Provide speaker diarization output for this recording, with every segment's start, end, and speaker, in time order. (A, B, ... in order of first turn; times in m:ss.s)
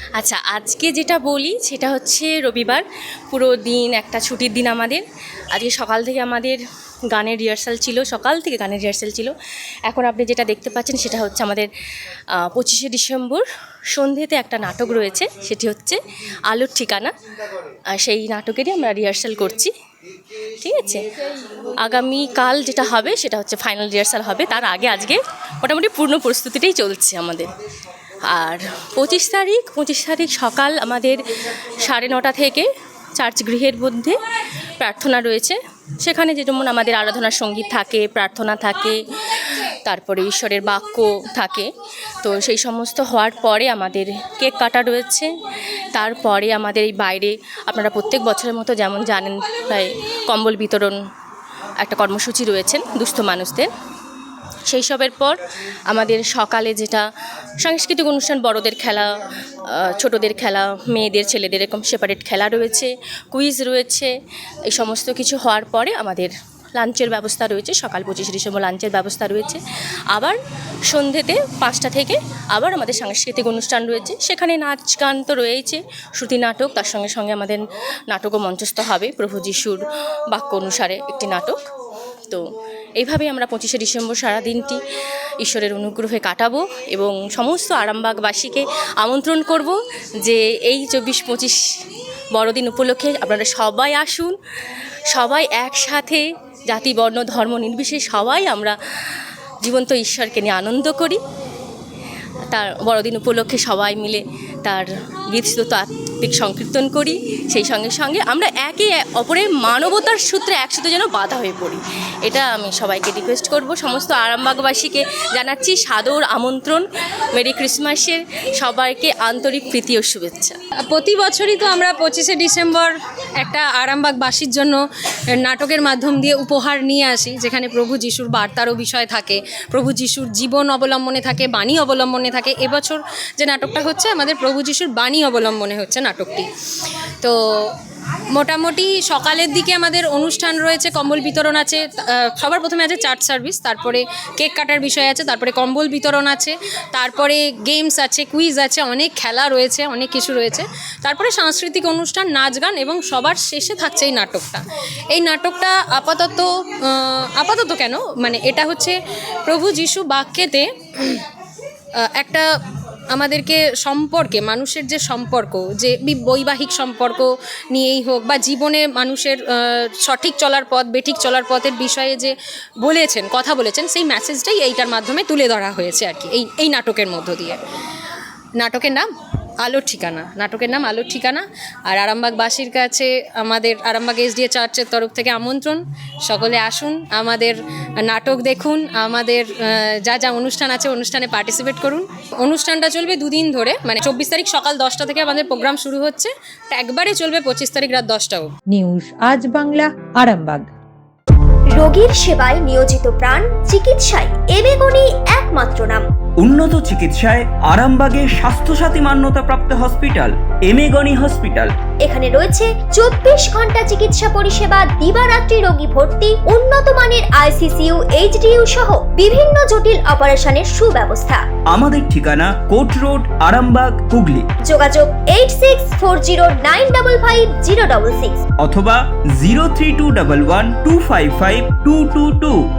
0:00.2-0:09.3 A
0:09.9-0:11.7 A
0:12.3-0:17.1 A
0:17.9-0:19.7 A
0:20.6-0:27.5 A
0:28.3-0:34.2 A
0:34.8-0:45.3 A
0:45.9-0:51.0 A
0:51.8-0:53.7 A
0:54.7-0:57.0 A
0:57.6-1:04.1 A
1:04.7-1:09.6 A
1:10.1-1:10.4 A
1:10.9-1:21.7 A
1:23.0-1:24.8 A
1:25.4-1:31.8 A
1:32.3-1:34.4 A
1:35.1-1:38.8 A
1:39.6-1:41.2 A
1:42.5-2:00.6 A
2:00.9-2:04.8 B
2:05.4-2:17.8 B
2:18.3-2:41.2 B
2:42.0-2:42.5 B
2:43.1-2:57.6 B
2:58.6-2:59.1 B
2:59.6-3:18.5 B
3:18.7-3:20.6 C
3:21.7-3:26.1 D
3:26.4-3:31.7 E
3:32.0-3:41.4 D
3:41.7-3:44.4 E
3:44.7-3:48.4 D
3:48.6-3:52.6 E